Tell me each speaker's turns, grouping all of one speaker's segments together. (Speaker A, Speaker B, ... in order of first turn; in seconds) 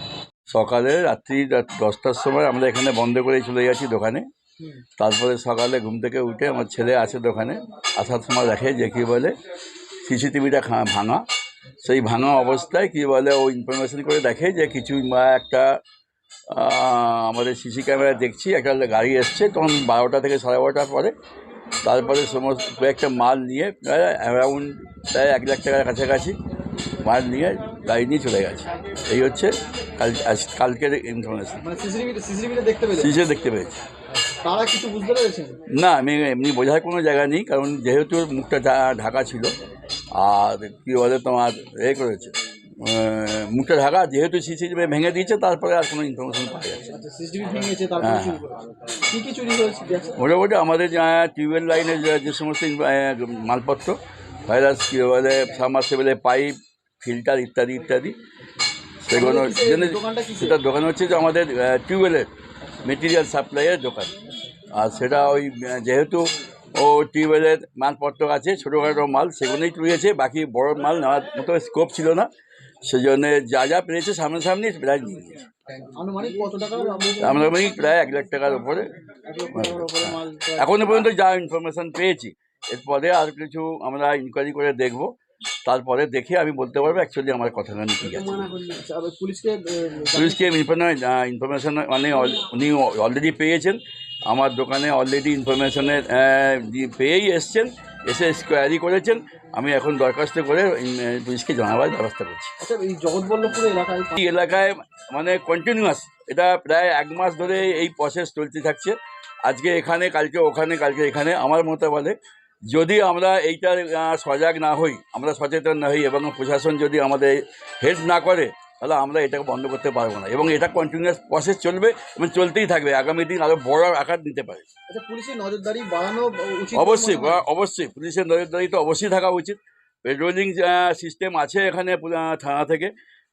Speaker A: 0.5-4.2, 5.0-9.3, 10.1-11.2, 11.8-15.8, 16.5-21.1, 21.8-26.4, 27.0-31.6, 33.0-33.8, 35.7-39.5, 40.1-46.9, 48.0-48.4, 50.1-58.2, 59.0-62.3, 62.8-64.1, 64.7-72.3, 72.8-75.4, 77.2-78.9, 79.5-88.5, 90.1-102.5, 104.2-112.2, 112.7-124.7, 126.7-132.9
Speaker B: 31.6-33.1, 34.3-35.6, 46.9-50.2, 59.1-60.6, 75.8-77.6, 79.2-81.0, 88.2-90.5, 102.6-104.2, 124.9-127.4